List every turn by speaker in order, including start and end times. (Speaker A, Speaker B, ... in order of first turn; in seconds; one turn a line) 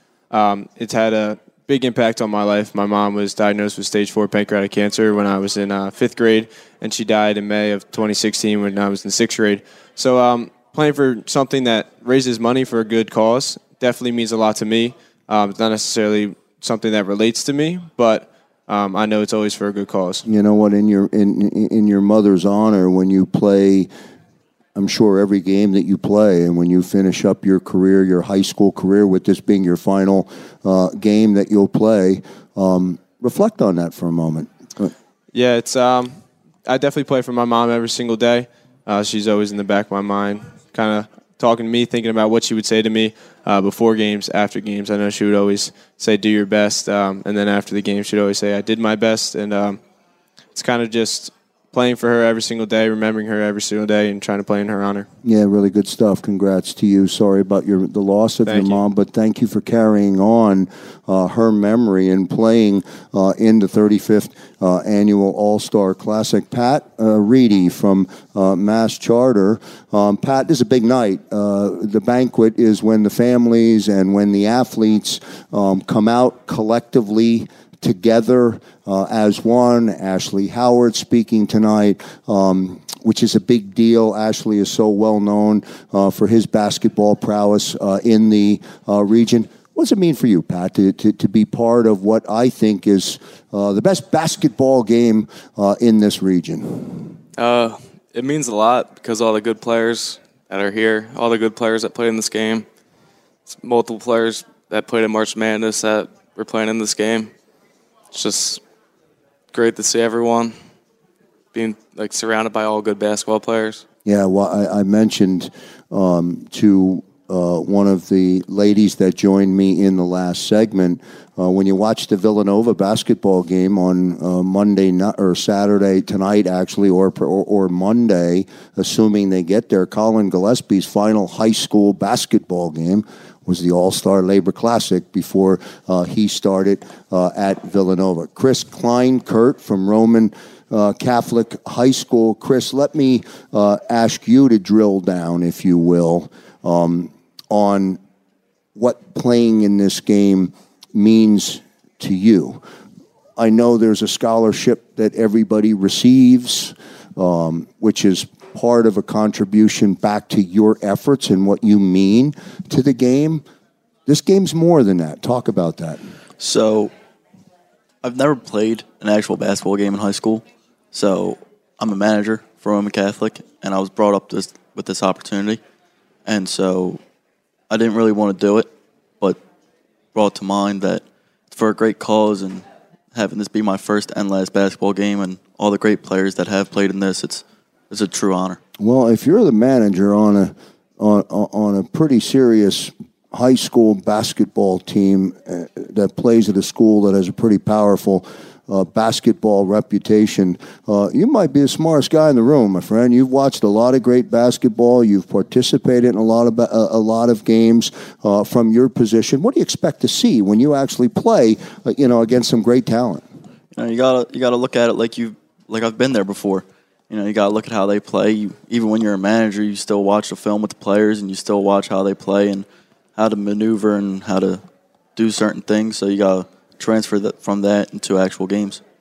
Speaker A: 0.3-20.2
Speaker B: 20.3-23.9
Speaker B: 24.8-34.9
Speaker A: 35.3-49.8
Speaker A: 50.5-55.1
Speaker B: 55.2-97.2
Speaker A: 58.5-58.8
Speaker C: 97.4-102.7
Speaker C: 103.5-107.3
Speaker C: 108.1-108.6
Speaker C: 109.5-110.6
Speaker C: 111.5-113.8
Speaker B: 114.1-148.0
Speaker B: 148.8-152.6
Speaker B: 153.4-163.4
Speaker B: 164.1-166.1
Speaker D: 166.4-166.9
Speaker D: 168.0-175.6
Speaker D: 176.2-177.0
Speaker D: 177.7-179.4
Speaker D: 180.1-188.6
Speaker B: 188.8-213.2
Speaker D: 213.8-224.6
Speaker D: 225.2-228.8